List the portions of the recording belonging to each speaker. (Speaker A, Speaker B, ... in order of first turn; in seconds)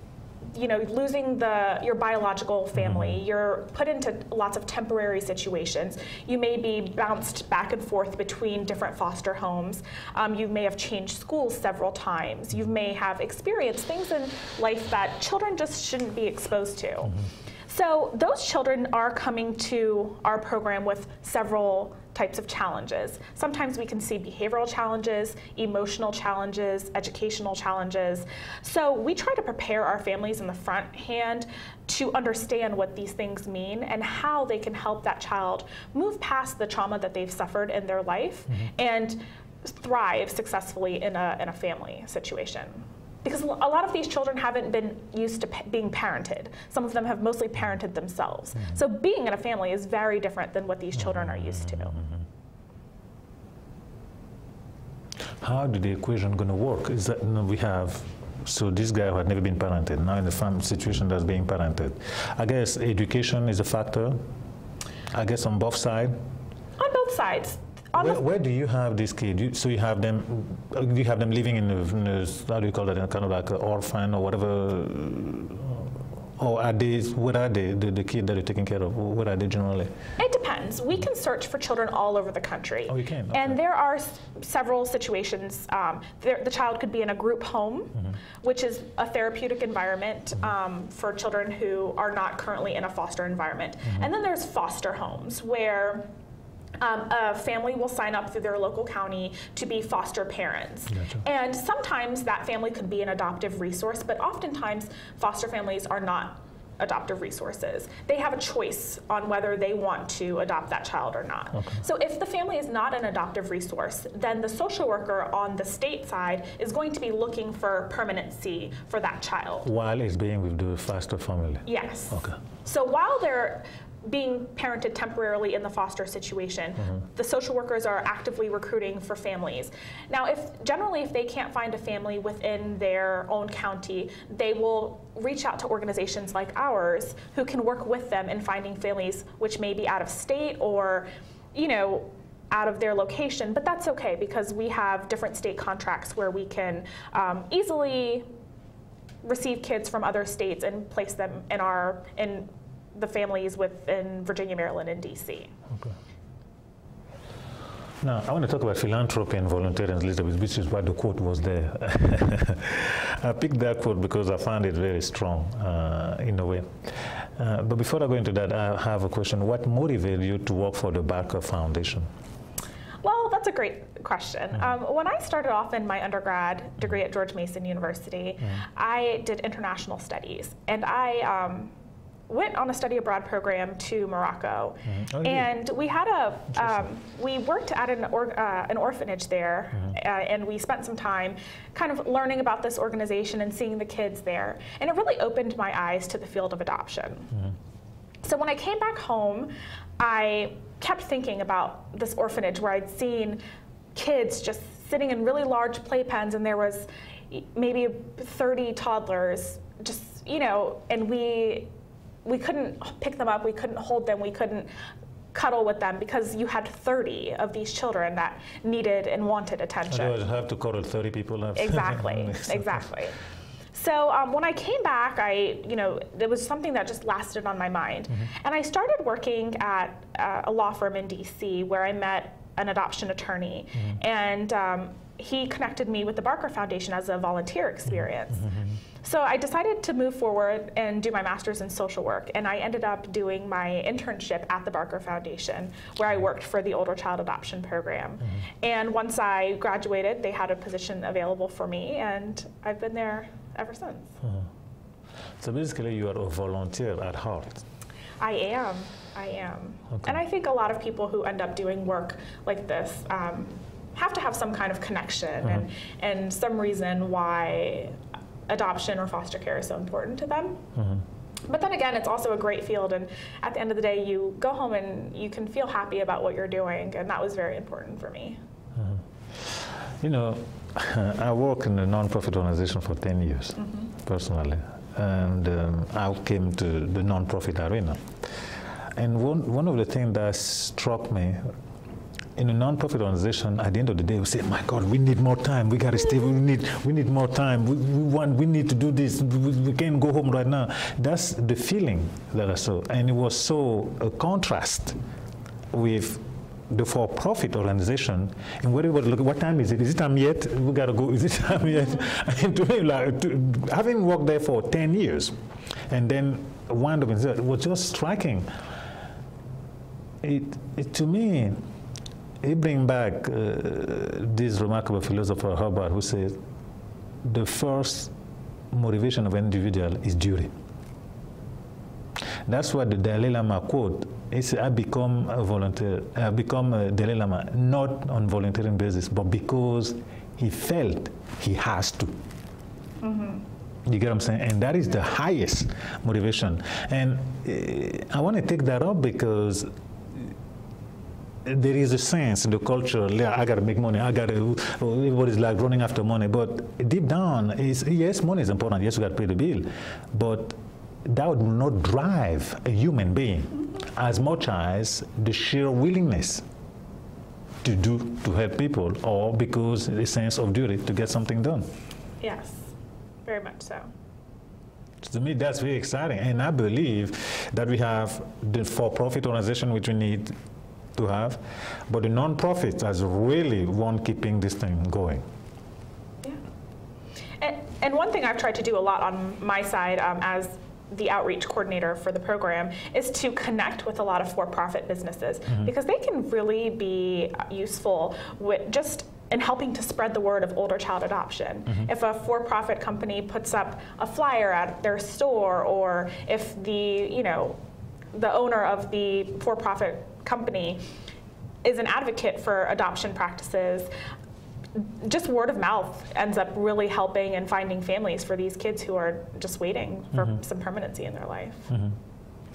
Speaker A: 0.5-17.1, 17.7-52.0, 66.8-68.2, 80.2-96.1, 96.8-119.7, 121.7-148.3, 149.2-155.5, 173.0-181.7, 182.3-197.3, 198.2-203.4, 203.9-211.7, 212.2-214.7, 215.3-220.2, 221.6-223.2, 223.7-254.1, 258.2-268.0, 268.5-270.7, 271.5-278.4, 283.6-283.9, 343.0-343.4, 372.2-372.7, 373.2-373.9, 387.4-407.6, 408.1-410.8, 411.6-413.9, 414.8-421.7
Speaker B: 2.8-3.2, 51.0-52.2, 55.4-64.2, 65.1-66.2, 68.0-79.9, 82.9-83.6, 119.6-122.4, 158.0-172.1, 184.9-185.5, 186.6-186.8, 219.9-222.9, 255.4-257.6, 270.8-271.0, 278.8-288.1, 288.9-291.5, 292.4-305.0, 305.7-315.4, 315.9-318.5, 320.2-321.6, 322.4-326.4, 327.2-328.1, 328.7-330.5, 332.5-342.2, 343.9-350.3, 351.4-366.4, 367.6-371.7, 375.0-380.4, 381.0-385.2, 421.7-422.0